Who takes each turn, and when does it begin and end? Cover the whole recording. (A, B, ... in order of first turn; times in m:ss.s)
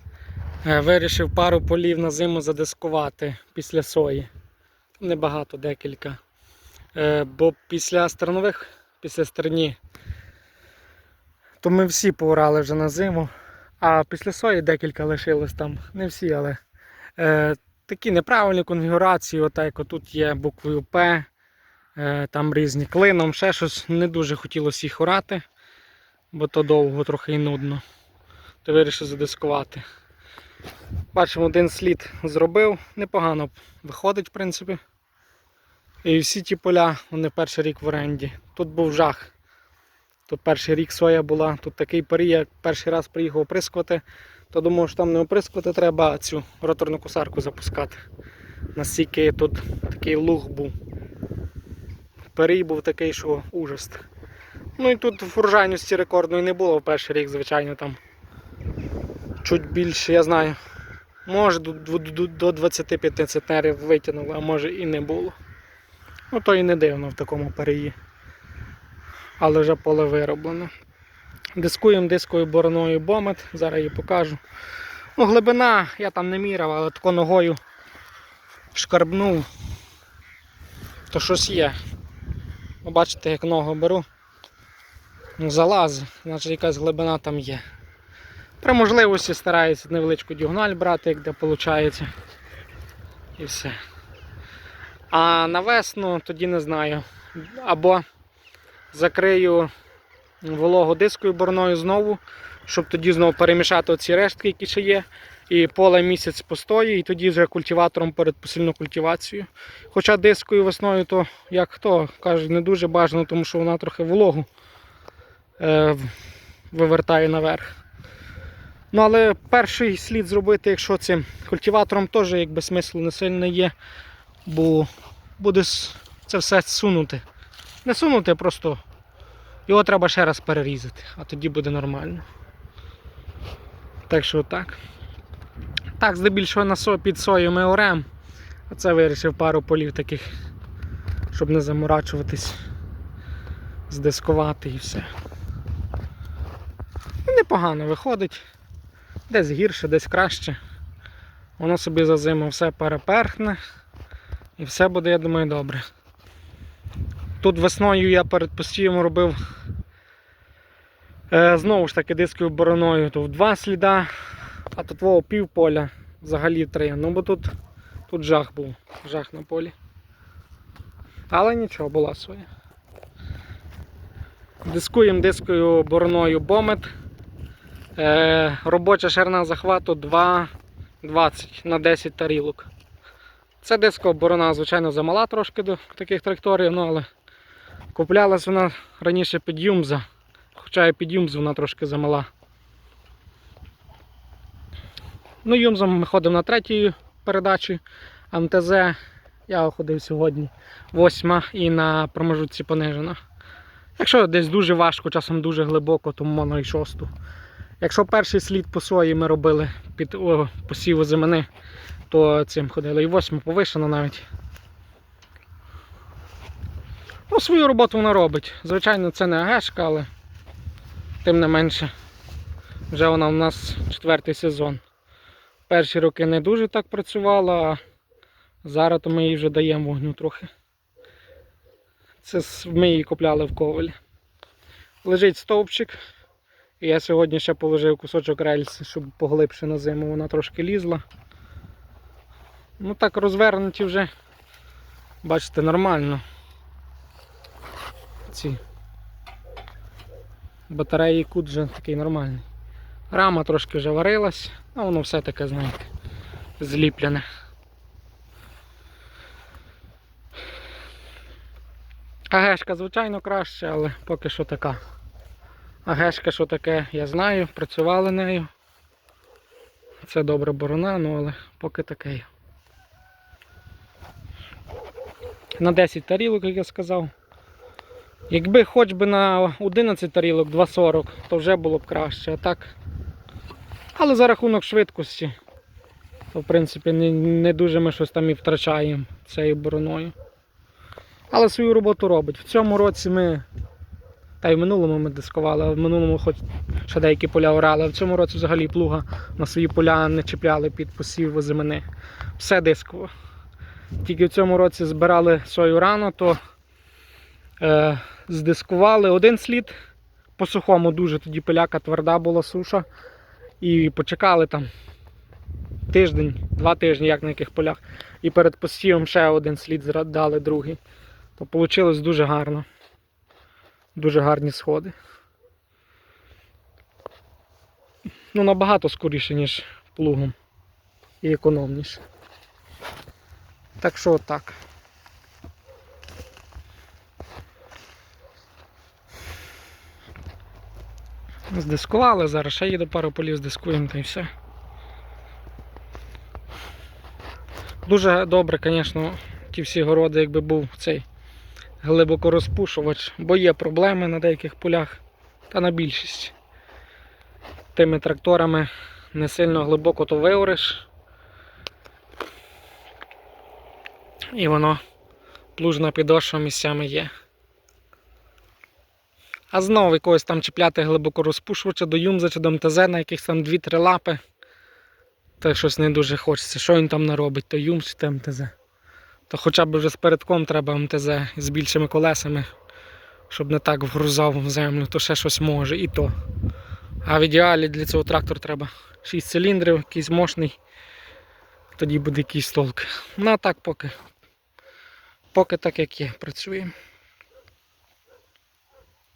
0:00.6-0:04.3 A
0:05.0-0:06.2 A
0:06.9-0:09.8 A
0:11.6-0:16.6 A
0:17.2-0:21.3 A
0:22.0-0:25.4 A
0:26.3-0:27.8 A
0:28.6-0:29.8 A
0:31.1-0:34.8 A
0:36.0-0:39.3 A
0:40.3-0:48.0 A
0:48.7-0:50.7 A
0:52.3-0:54.0 A
0:54.8-0:58.0 A
0:59.4-1:00.6 A
1:01.2-1:05.4 A
1:06.3-1:07.9 A
1:09.4-1:10.7 A
1:11.6-1:14.4 A
1:15.2-1:17.6 A
1:18.7-1:19.5 A
1:21.1-1:21.8 A
1:22.8-1:24.0 A
1:25.4-1:27.6 A
1:28.6-1:32.1 A
1:33.4-1:33.8 A
1:35.1-1:38.0 A
1:38.9-1:39.7 A
1:40.4-1:54.5 A
1:55.6-1:56.1 A
1:56.7-1:57.7 A
1:58.9-2:03.7 A
2:04.4-2:07.2 A
2:07.8-2:08.8 A
2:09.7-2:12.2 A
2:14.1-2:14.8 A
2:16.0-2:18.0 A
2:18.7-2:20.2 A
2:21.3-2:22.6 A
2:23.9-2:25.1 A
2:27.2-2:28.4 A
2:29.3-2:30.6 A
2:31.6-2:33.6 A
2:34.6-2:35.8 A
2:37.4-2:39.4 A
2:41.3-2:44.1 A
2:44.7-2:47.5 A
2:48.1-2:49.7 A
2:51.3-2:52.5 A
2:54.6-2:56.9 A
2:58.0-3:00.5 A
3:01.0-3:02.7 A
3:03.6-3:07.1 A
3:07.9-3:10.0 A
3:10.5-3:12.3 A
3:15.4-3:17.8 A
3:18.3-3:19.0 A
3:19.5-3:23.2 A
3:24.0-3:27.1 A
3:27.8-3:31.5 A
3:32.1-3:34.2 A
3:37.3-3:40.1 A
3:41.2-3:41.9 A
3:42.9-3:44.8 A
3:45.7-3:47.8 A
3:48.6-3:50.5 A
3:52.2-3:53.9 A
3:55.0-3:56.0 A
3:56.8-4:01.0 A
4:02.8-4:04.1 A
4:05.2-4:06.2 A
4:08.3-4:08.6 A
4:10.7-4:12.4 A
4:13.1-4:15.9 A
4:16.6-4:17.2 A
4:22.3-4:24.8 A
4:25.8-4:28.5 A
4:30.0-4:32.3 A
4:35.6-4:37.1 A
4:38.3-4:42.7 A
4:44.0-4:45.3 A
4:46.3-4:50.1 A
4:51.3-4:53.4 A
4:54.4-5:01.8 A
5:02.4-5:03.1 A
5:04.0-5:06.4 A
5:07.6-5:09.7 A
5:10.4-5:12.9 A
5:13.6-5:14.7 A
5:15.9-5:20.8 A
5:21.4-5:22.6 A
5:24.0-5:24.9 A
5:28.3-5:30.3 A
5:31.2-5:32.0 A
5:33.8-5:34.6 A
5:41.5-5:44.3 A
5:47.8-5:51.0 A
5:51.8-5:56.3 A
5:57.7-6:00.8 A
6:04.3-6:04.8 A
6:05.6-6:07.1 A
6:09.5-6:14.2 A
6:15.4-6:18.5 A
6:19.3-6:22.5 A
6:23.3-6:26.1 A
6:27.0-6:30.6 A
6:31.8-6:33.9 A
6:35.3-6:36.7 A